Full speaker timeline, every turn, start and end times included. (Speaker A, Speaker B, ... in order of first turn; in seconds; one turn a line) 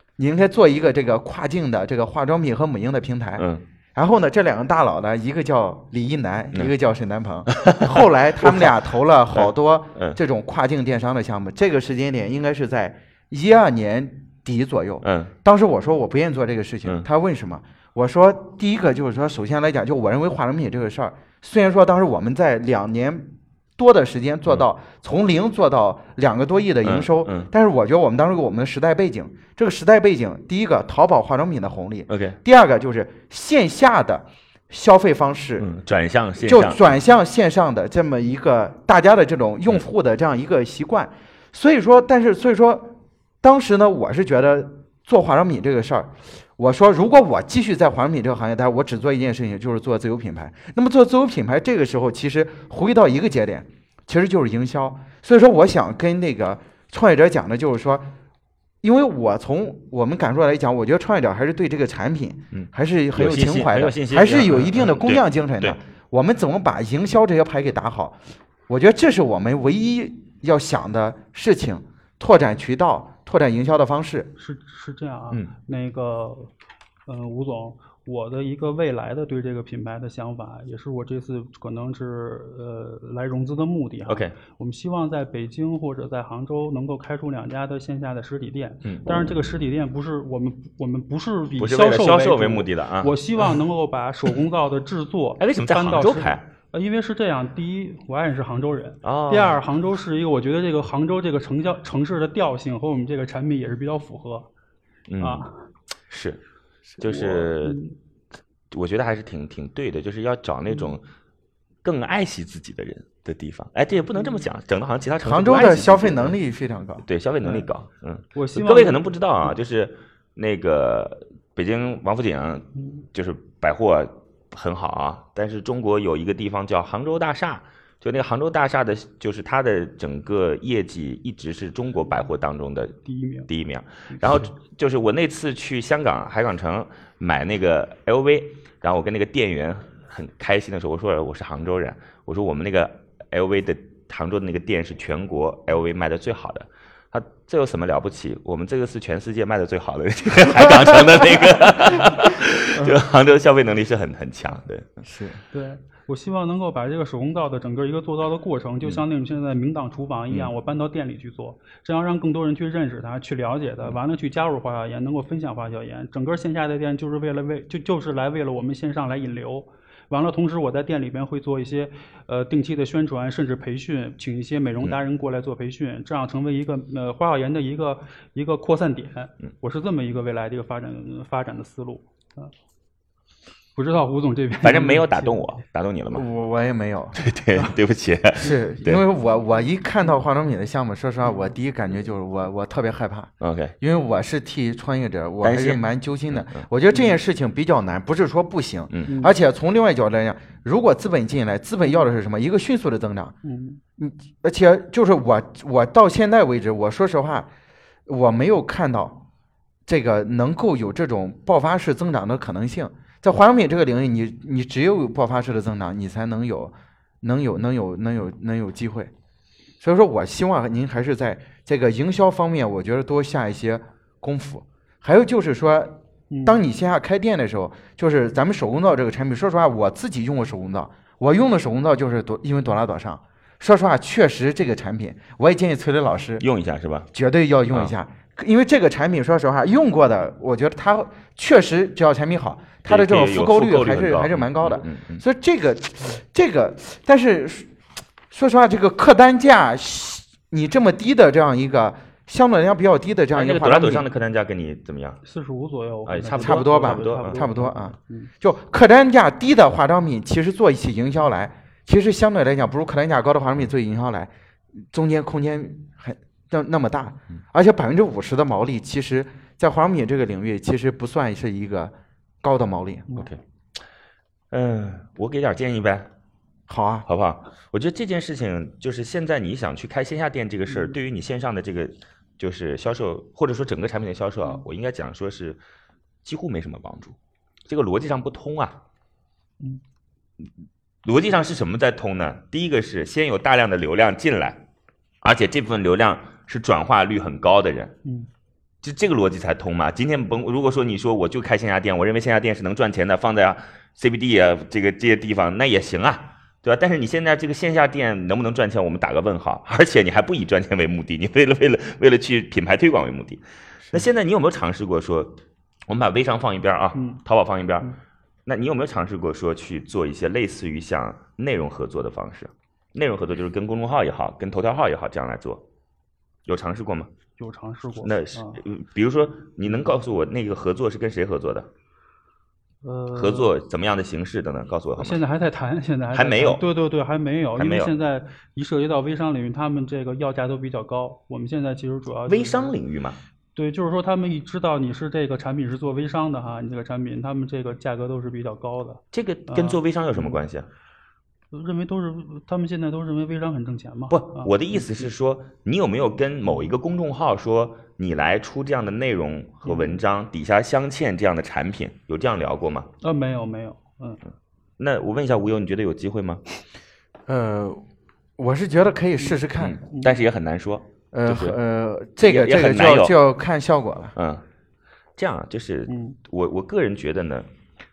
Speaker A: 0.2-35.7
Speaker B: 3.4-3.6
Speaker B: 7.5-8.8
Speaker B: 9.3-10.2
Speaker B: 15.0-15.3
Speaker B: 26.8-27.5
Speaker B: 32.1-32.4
Speaker B: 35.6-36.9
Speaker A: 36.4-58.1
Speaker A: 58.8-68.2
Speaker B: 62.5-65.8
Speaker A: 68.7-74.3
Speaker C: 74.4-76.5
Speaker C: 77.1-104.5
Speaker B: 84.1-84.3
Speaker B: 88.8-89.2
Speaker B: 91.6-93.5
Speaker B: 95.4-96.4
Speaker B: 99.0-99.6
Speaker B: 105.1-105.5
Speaker C: 105.2-105.6
Speaker B: 106.1-106.4
Speaker B: 107.0-107.8
Speaker C: 107.3-107.9
Speaker B: 108.7-111.0
Speaker B: 111.8-116.4
Speaker A: 115.2-117.0
Speaker B: 117.0-154.9
Speaker C: 118.3-119.0
Speaker C: 122.8-123.0
Speaker C: 133.1-133.5
Speaker A: 155.0-155.4
Speaker C: 155.5-182.5
Speaker C: 183.7-185.4
Speaker B: 184.6-186.2
Speaker A: 186.1-187.2
Speaker B: 187.2-189.0
Speaker A: 188.4-203.3
Speaker B: 193.4-193.7
Speaker B: 195.4-196.6
Speaker C: 199.1-199.3
Speaker C: 203.4-203.8
Speaker A: 204.0-207.5
Speaker A: 208.1-209.2
Speaker A: 209.9-219.1
Speaker A: 219.8-236.4
Speaker C: 226.3-226.6
Speaker B: 236.4-237.1
Speaker A: 237.1-247.7
Speaker B: 242.8-245.2
Speaker A: 248.3-254.1
Speaker B: 253.3-255.2
Speaker C: 255.2-258.3
Speaker B: 256.1-257.4
Speaker A: 256.4-264.3
Speaker A: 264.9-273.2
Speaker B: 274.5-276.1
Speaker A: 276.7-277.1
Speaker B: 277.1-285.6
Speaker B: 286.2-287.1
Speaker B: 287.7-288.8
Speaker B: 291.0-294.6
Speaker B: 295.2-297.9
Speaker B: 298.8-317.9
Speaker C: 316.9-317.2
Speaker B: 318.4-325.6
Speaker B: 326.4-327.1
Speaker C: 327.4-328.6
Speaker B: 328.0-331.7
Speaker C: 332.8-333.5
Speaker B: 333.1-335.2
Speaker C: 335.0-342.7
Speaker B: 336.1-336.6
Speaker B: 337.6-337.9
Speaker B: 342.3-343.2
Speaker C: 343.5-350.4
Speaker B: 349.1-350.7
Speaker C: 351.5-355.0
Speaker B: 354.1-362.9
Speaker C: 359.6-360.0
Speaker C: 363.0-364.2
Speaker B: 364.8-366.4
Speaker A: 367.3-367.8
Speaker A: 368.4-369.8
Speaker B: 369.6-371.6
Speaker C: 369.9-370.2
Speaker A: 371.1-374.1
Speaker B: 372.2-373.2
Speaker B: 374.1-374.4
Speaker B: 375.2-377.5
Speaker C: 375.9-376.2